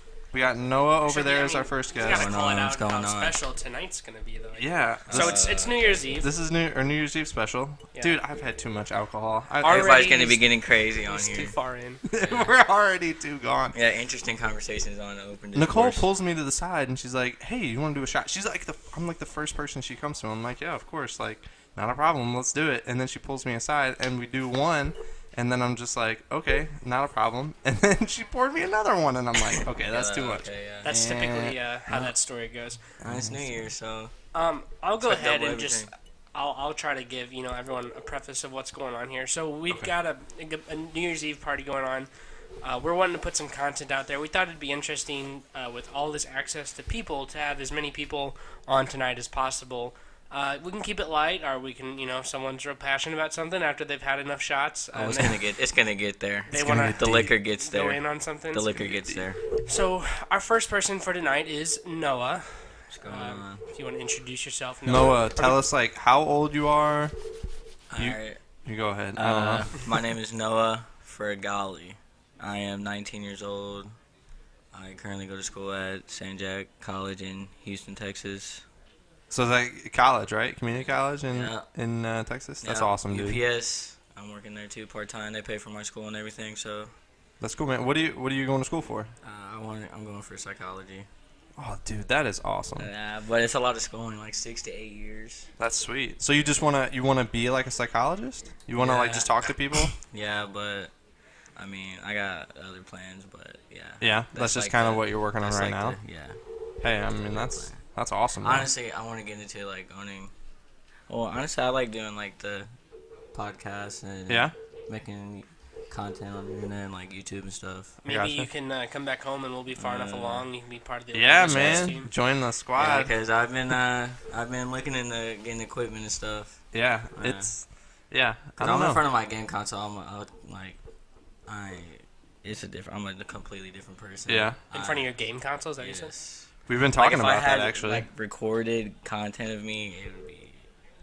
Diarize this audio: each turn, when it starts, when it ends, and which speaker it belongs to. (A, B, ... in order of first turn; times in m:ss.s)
0:00.3-0:02.4 A
0:01.0-0:06.3 B
0:02.0-0:03.4 C
0:04.6-0:05.6 A
0:05.1-0:06.1 C
0:06.2-0:10.1 A
0:09.6-0:12.0 B
0:09.6-0:11.6 C
0:12.1-0:13.7 A
0:12.2-0:12.5 C
0:13.7-0:16.1 C
0:15.6-0:32.1 A
0:29.7-0:30.9 C
0:30.8-0:32.8 B
0:33.0-0:33.5 A
0:33.0-0:34.1 C
0:34.3-0:42.1 B
0:35.0-0:35.9 C
0:42.6-0:55.4 B
0:54.9-0:59.4 C
0:56.5-0:58.9 B
0:56.5-0:57.3 A
0:59.0-0:59.2 A
0:59.7-1:05.7 B
1:02.9-1:03.6 C
1:04.9-1:07.1 A
1:07.9-1:08.4 C
1:08.0-1:09.7 A
1:09.2-1:13.9 C
1:14.7-1:18.6 C
1:19.3-1:23.4 A
1:21.3-1:21.7 C
1:22.6-1:26.9 C
1:27.4-1:29.1 A
1:29.2-1:31.1 C
1:31.6-1:32.9 A
1:32.8-1:35.5 C
1:35.6-1:39.9 A
1:38.8-1:40.9 C
1:41.6-1:46.4 C
1:44.0-1:46.0 A
1:46.8-1:48.7 A
1:47.3-1:47.8 C
1:48.4-1:50.3 C
1:51.1-1:52.7 C
1:53.3-1:58.0 C
1:54.3-1:54.5 A
1:58.0-2:02.1 B
1:58.0-1:58.5 A
1:59.8-2:00.5 C
2:01.1-2:03.1 A
2:01.4-2:02.0 C
2:02.8-2:07.7 C
2:06.7-2:09.0 A
2:08.6-2:10.8 C
2:11.5-2:15.2 C
2:14.3-2:14.6 A
2:14.7-2:16.1 B
2:15.8-2:20.6 C
2:16.7-2:18.1 A